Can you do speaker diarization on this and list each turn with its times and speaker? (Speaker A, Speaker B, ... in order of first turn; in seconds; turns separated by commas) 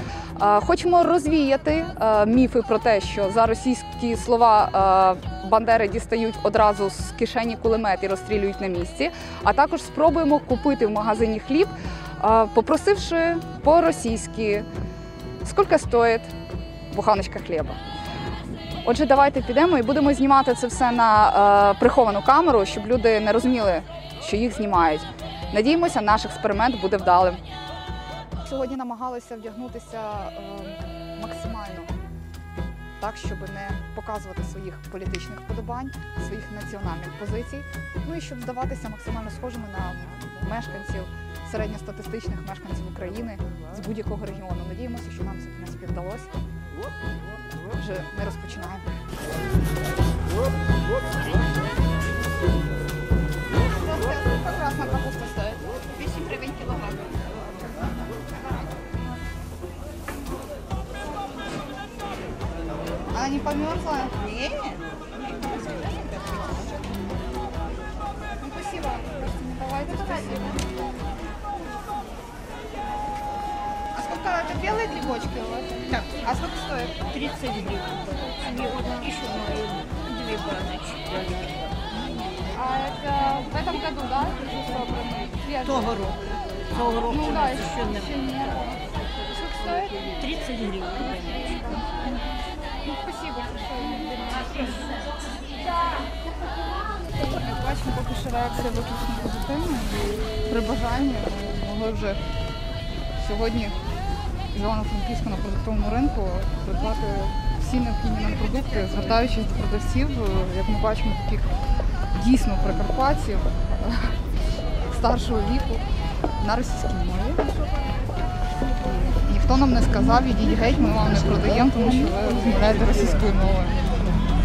Speaker A: 0.4-14.7, Speaker A: 15.4-16.3, Speaker A: 16.9-17.8, Speaker A: 18.8-27.4, Speaker A: 28.4-31.9, Speaker A: 33.0-46.3, Speaker A: 47.7-48.9, Speaker A: 53.7-57.3, Speaker A: 63.1-66.8, Speaker A: 68.4-70.7, Speaker A: 73.9-77.0, Speaker B: 75.9-76.2, Speaker B: 77.1-81.7, Speaker A: 81.9-86.1, Speaker B: 85.7-86.2, Speaker B: 86.7-88.1, Speaker A: 86.7-90.2, Speaker B: 90.2-91.6, Speaker A: 91.4-92.1, Speaker A: 92.8-94.9, Speaker A: 97.3-102.2, Speaker A: 103.2-103.8, Speaker A: 104.5-111.5, Speaker A: 112.1-114.2, Speaker A: 114.9-115.8, Speaker A: 116.4-117.7, Speaker A: 119.0-123.8